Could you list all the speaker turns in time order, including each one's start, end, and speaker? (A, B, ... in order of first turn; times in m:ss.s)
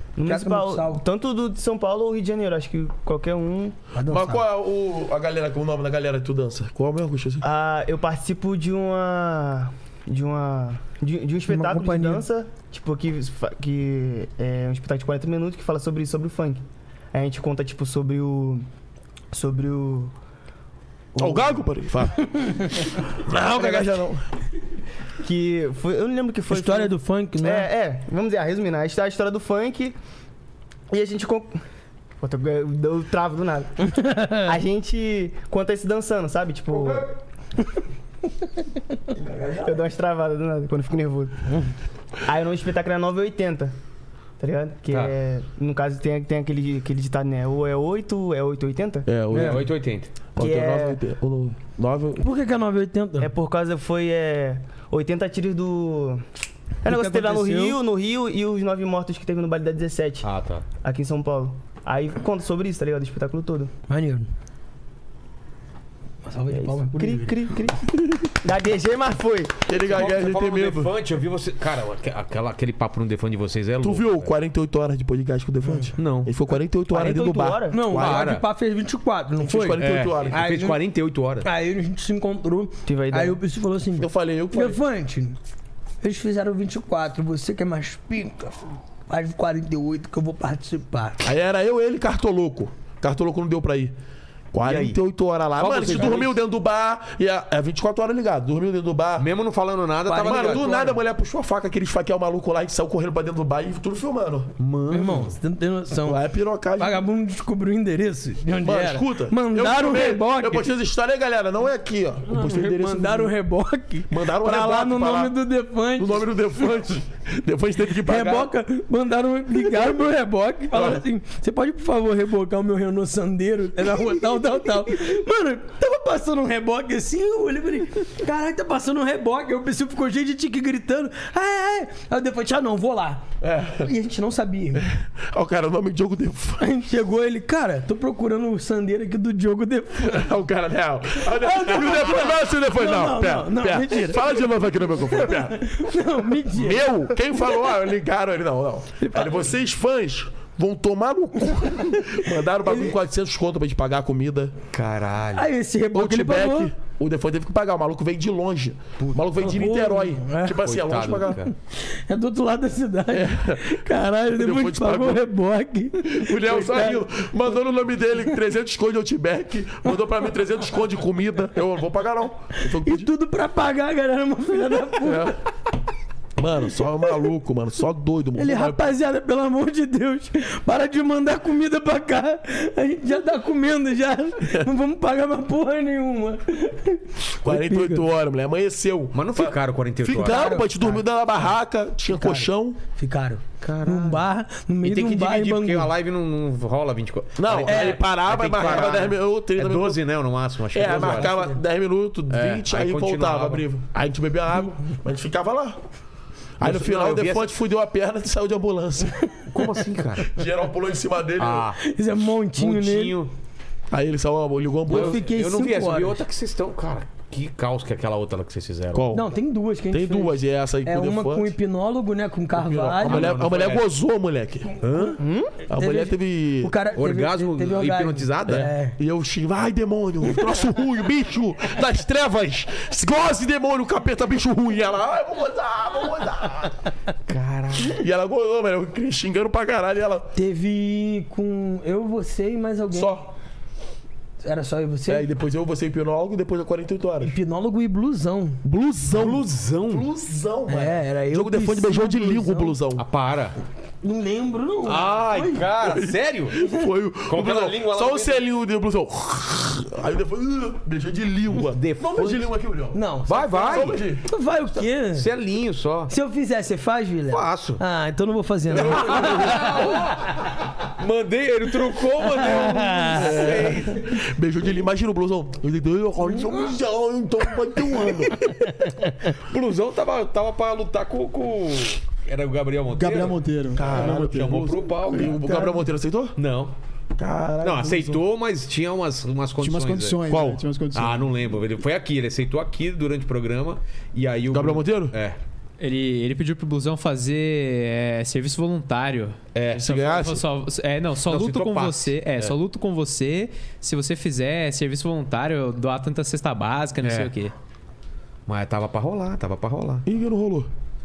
0:00.2-0:03.8 A
0:00.2-0:01.0 B
0:03.9-0:04.4 B
0:04.1-0:07.4 C
0:07.4-0:16.6 A
0:11.5-0:12.2 B
0:17.1-0:18.6 A
0:19.3-0:20.1 A
0:21.2-0:21.6 A
0:21.2-0:24.2 C
0:23.5-0:24.0 A
0:25.2-0:30.0 A
0:26.5-0:27.7 B
0:30.9-0:31.6 A
0:32.2-0:37.1 A
0:33.8-0:34.6 B
0:39.2-0:39.6 C
0:39.6-0:41.4 A
0:42.2-0:43.7 A
0:44.4-0:49.0 A
0:49.0-0:49.7 C
0:49.3-0:49.6 B
0:49.3-0:50.1 D
0:50.3-0:52.2 C
0:50.4-0:51.0 A
0:52.2-0:53.3 B
0:53.2-0:56.2 A
0:56.8-1:00.3 A
0:56.8-0:57.8 B
1:00.2-1:00.6 D
1:00.8-1:03.7 A
1:03.9-1:04.3 B
1:06.2-1:07.4 B
1:06.5-1:09.6 A
1:09.7-1:10.9 C
1:09.8-1:14.3 D
1:13.8-1:18.3 C
1:16.0-1:16.3 D
1:16.9-1:17.8 A
1:17.7-1:20.8 B
1:17.9-1:18.4 D
1:19.4-1:20.4 C
1:19.8-1:21.4 D
1:21.4-1:25.4 B
1:22.8-1:23.4 A
1:24.0-1:24.8 C
1:26.0-1:31.2 B
1:31.2-1:33.9 C
1:34.5-1:39.3 C
1:34.6-1:35.0 D
1:35.6-1:36.4 D
1:39.2-1:40.9 D
1:40.0-1:41.0 B
1:40.2-1:44.5 C
1:44.6-1:45.3 D
1:44.9-1:46.2 B
1:46.0-1:47.0 C
1:46.8-1:50.7 B
1:48.6-1:53.3 C
1:52.3-1:56.3 B
1:54.1-1:55.3 C
1:56.0-1:58.5 C
1:58.0-2:13.2 B
2:00.7-2:01.0 C
2:13.4-2:13.9 C
2:13.8-2:14.9 B
2:15.2-2:16.6 C
2:16.6-2:20.3 B
2:20.0-2:25.6 C
2:21.3-2:24.5 B
2:25.0-2:26.9 B
2:26.5-2:34.5 C
2:29.0-2:29.5 B
2:32.6-2:32.9 B
2:34.7-2:35.5 D
2:35.3-2:36.7 B
2:35.9-2:41.4 C
2:39.0-2:39.2 D
2:39.4-2:40.6 B
2:40.6-2:41.5 D
2:41.4-2:47.0 B
2:43.1-2:43.8 C
2:44.3-2:45.2 C
2:46.0-2:53.1 C
2:52.6-2:55.3 B
2:55.0-2:55.4 C
2:56.4-2:58.9 C
2:58.4-3:08.1 B
3:07.4-3:12.8 C
3:09.1-3:10.6 D
3:10.2-3:11.1 B
3:12.1-3:15.9 B
3:13.6-3:14.2 D
3:14.8-3:21.4 D
3:17.4-3:20.0 C
3:17.6-3:18.0 B
3:20.7-3:25.8 C
3:21.0-3:21.3 B
3:22.3-3:23.6 D
3:26.6-3:29.2 C
3:26.6-3:27.5 D
3:29.5-3:30.4 D
3:30.3-3:31.7 C
3:31.4-3:31.8 D
3:31.8-3:33.2 B
3:32.6-3:33.3 D
3:33.9-3:35.2 C
3:34.9-3:36.2 B
3:34.9-3:39.0 D
3:38.9-3:39.3 C
3:39.1-3:43.4 B
3:39.9-3:41.5 C
3:42.6-3:44.8 C
3:43.0-3:43.9 D
3:44.8-3:45.2 D
3:45.2-3:45.6 A
3:45.7-3:49.0 B
3:45.7-3:46.7 C
3:47.0-3:48.7 D
3:48.5-3:56.8 C
3:57.3-3:58.0 D
3:57.8-4:00.3 C
4:00.3-4:03.2 B
4:02.9-4:03.3 C
4:04.4-4:05.3 B
4:05.1-4:07.3 C
4:07.2-4:08.6 B
4:08.6-4:13.0 C
4:09.1-4:10.1 D
4:10.7-4:12.8 B
4:13.0-4:13.6 D
4:14.0-4:15.7 B
4:14.8-4:16.6 D
4:15.8-4:24.2 C
4:17.3-4:18.4 D
4:21.6-4:22.5 D
4:22.9-4:25.3 B
4:23.3-4:24.0 D
4:25.1-4:26.1 D
4:26.1-4:30.3 B
4:27.3-4:27.8 D
4:28.7-4:29.9 C
4:28.8-4:30.3 D
4:31.0-4:34.2 D
4:32.3-4:33.5 B
4:33.1-4:38.5 C
4:38.4-4:39.1 B
4:39.4-4:45.8 D
4:42.9-4:44.3 E
4:43.7-4:46.4 C
4:46.4-4:46.7 D
4:47.2-4:48.2 C
4:47.6-4:50.2 D
4:49.6-4:51.3 E
4:50.3-4:50.6 C
4:50.9-4:55.4 D
4:54.5-4:55.1 C
4:55.8-5:07.5 F
4:59.5-4:59.9 D
4:59.8-5:00.4 C
5:01.2-5:02.6 D
5:07.0-5:07.3 D
5:08.5-5:10.0 D
5:10.0-5:10.7 C